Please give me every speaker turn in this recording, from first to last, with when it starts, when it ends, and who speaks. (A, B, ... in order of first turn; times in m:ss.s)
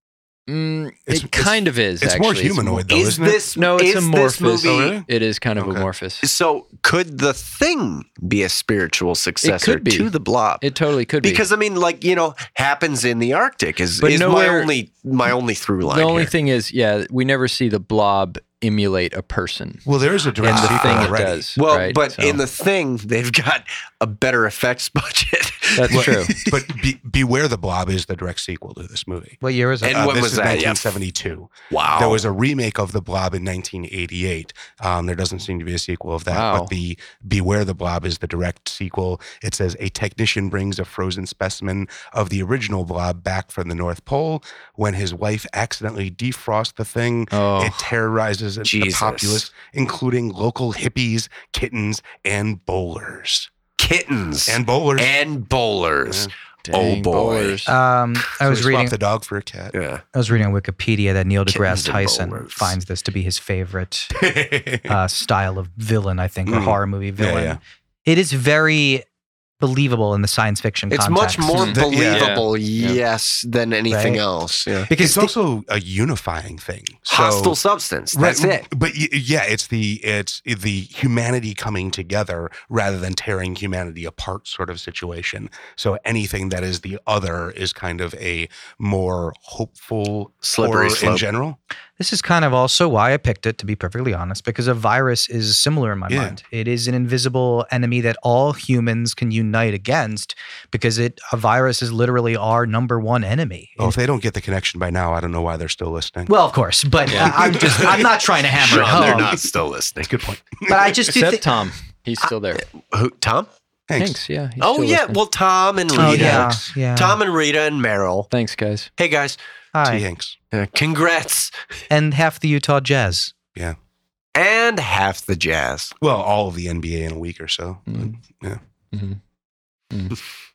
0:00.5-0:02.9 A
0:01.1-0:03.5 B
0:02.9-0:05.0 C
0:03.5-0:06.3 A
0:04.6-0:05.1 B
0:05.6-0:05.9 B
0:06.2-0:10.6 C
0:09.4-0:10.1 A
0:10.6-0:11.4 A
0:11.2-0:16.3 C
0:14.0-0:14.7 A
0:15.8-0:19.8 A
0:19.9-0:21.4 B
0:20.4-0:22.4 A
0:20.5-0:26.6 C
0:25.8-0:26.4 A
0:25.9-0:53.5 B
0:29.4-0:30.1 D
0:29.8-0:30.9 C
0:31.7-0:32.2 C
0:36.3-0:36.7 A
0:47.3-0:47.9 A
0:48.6-0:49.5 C
0:53.8-0:57.6 C
0:54.5-0:55.2 B
0:56.1-0:56.3 B
0:56.7-0:57.7 A
0:57.7-0:59.0 D
0:58.4-0:59.8 B
0:59.7-1:00.0 C
1:00.1-1:04.1 D
1:01.5-1:02.8 C
1:04.1-1:04.9 B
1:04.9-1:09.0 D
1:06.5-1:07.6 B
1:09.6-1:11.7 D
1:10.9-1:14.9 C
1:11.5-1:13.0 A
1:11.7-1:12.3 B
1:13.9-1:14.2 D
1:14.9-1:15.3 D
1:15.0-1:17.6 B
1:17.1-1:18.7 C
1:18.1-1:31.6 B
1:30.4-1:31.2 C
1:32.0-1:44.0 D
1:36.1-1:36.4 B
1:43.8-1:46.3 B
1:46.3-1:49.4 D
1:47.1-1:48.0 B
1:47.5-1:50.2 C
1:48.9-1:49.4 B
1:50.0-1:51.1 B
1:50.7-1:51.5 D
1:51.1-1:52.6 A
1:52.6-1:53.5 C
1:53.9-1:54.2 B
1:54.0-1:55.2 A
1:54.6-1:58.3 C
1:56.0-1:56.5 A
1:56.0-1:57.2 D
1:58.3-1:58.9 A
1:59.0-1:59.4 C
1:59.7-2:00.0 D
1:59.8-2:00.4 B
2:00.5-2:01.5 C
2:01.9-2:03.3 D
2:04.4-2:05.9 C
2:06.0-2:08.6 B
2:07.9-2:08.2 A
2:08.9-2:09.2 A
2:09.9-2:10.2 A